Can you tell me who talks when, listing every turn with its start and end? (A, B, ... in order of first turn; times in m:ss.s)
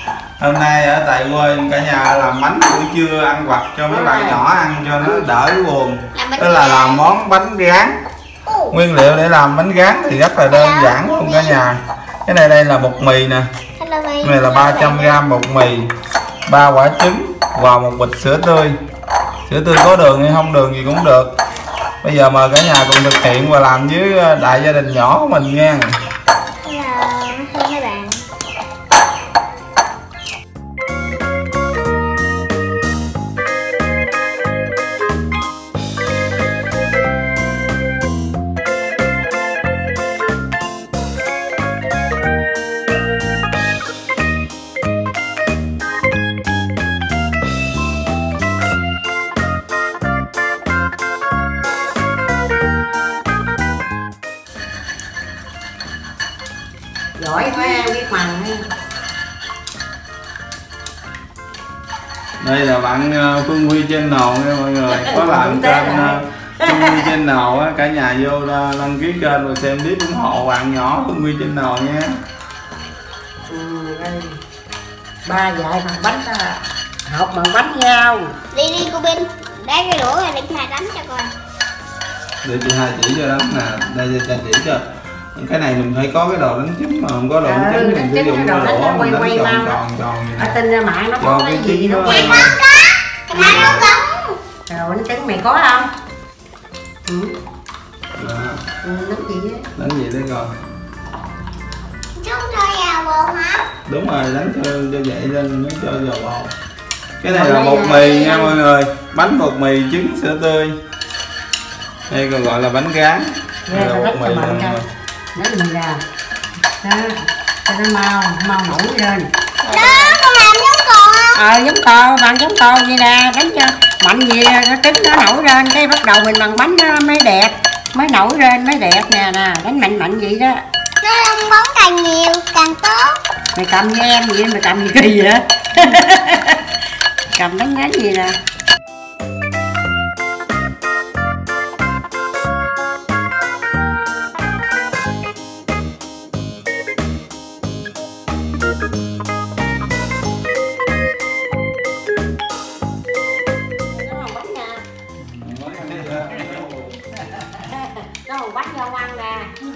0:00.4-0:07.9 A
0:03.9-0:04.4 B
0:06.1-0:07.1 C
0:08.4-0:08.7 C
0:08.7-0:13.5 A
0:10.5-0:11.6 C
0:13.8-0:15.2 C
0:14.2-0:15.9 A
0:16.5-0:18.8 A
0:19.5-0:21.3 A
0:22.0-0:25.9 A
0:26.6-0:28.2 C
0:57.2-0:58.6 B
1:02.4-1:12.1 A
1:04.9-1:07.1 B
1:13.5-1:14.4 B
1:15.2-1:18.3 B
1:18.5-1:21.3 C
1:22.4-1:30.6 A
1:27.4-1:29.8 B
1:30.4-1:32.5 B
1:31.2-1:32.6 A
1:32.0-1:34.4 C
1:33.3-1:33.8 B
1:33.3-1:33.9 A
1:34.7-1:35.9 B
1:37.1-1:37.3 B
1:38.2-1:38.6 A
1:38.8-1:39.6 B
1:39.8-1:40.5 A
1:42.2-1:43.6 C
1:43.9-1:46.5 A
1:47.2-1:50.8 A
1:47.2-1:48.6 B
1:52.1-1:54.8 A
1:53.7-1:54.8 B
1:55.3-1:56.0 B
1:56.8-1:59.3 B
1:59.6-2:01.4 C
2:01.3-2:10.6 B
2:11.0-2:13.2 C
2:13.5-2:16.6 B
2:17.3-2:18.4 B
2:33.8-2:34.8 B
2:35.2-2:37.0 A
2:37.6-2:39.5 B